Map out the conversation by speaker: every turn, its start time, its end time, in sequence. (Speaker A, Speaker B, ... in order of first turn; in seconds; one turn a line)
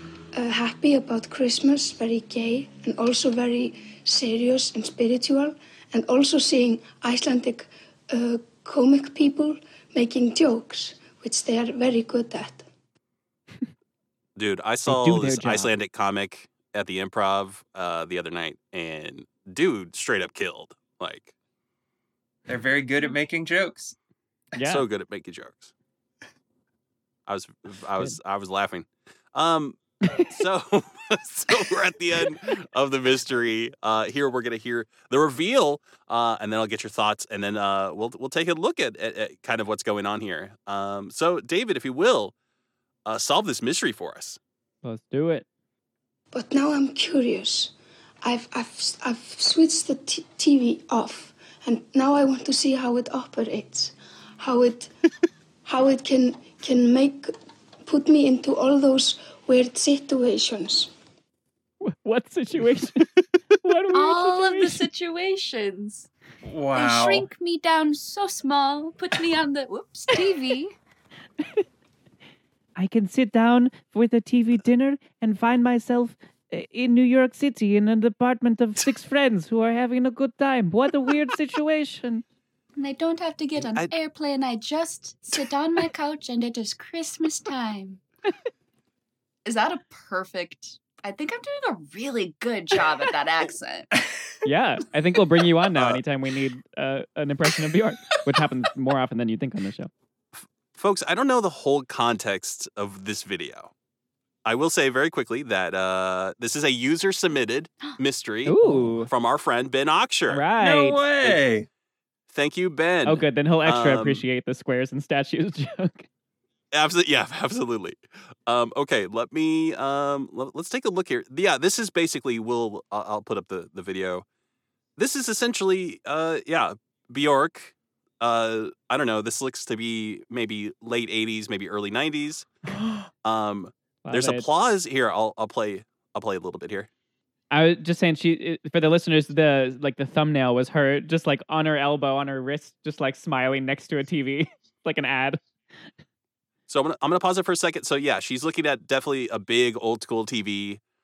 Speaker A: 0.3-12.7
Speaker B: 14.4-21.3
Speaker C: 14.9-15.8
Speaker D: 22.5-24.0
Speaker C: 24.6-24.9
Speaker B: 24.6-25.7
Speaker B: 27.3-42.3
Speaker B: 43.1-44.4
Speaker C: 44.8-45.5
Speaker A: 46.3-54.9
Speaker A: 55.6-57.3
Speaker A: 57.9-60.9
Speaker C: 61.8-64.8
Speaker E: 63.9-66.1
Speaker D: 66.4-67.3
Speaker E: 66.8-70.8
Speaker C: 72.8-82.2
Speaker E: 82.8-88.0
Speaker B: 83.6-83.9
Speaker E: 89.5-93.9
Speaker C: 94.5-99.9
Speaker B: 95.8-96.0
Speaker B: 100.3-103.7
Speaker B: 104.5-110.5
Speaker C: 108.5-109.1
Speaker C: 110.3-111.1
Speaker D: 110.6-111.7
Speaker B: 112.3-114.2
Speaker C: 113.0-116.1
Speaker B: 116.7-124.2
Speaker B: 125.0-132.5
Speaker B: 133.2-136.9
Speaker C: 134.0-134.5
Speaker C: 137.5-145.4
Speaker B: 146.7-150.8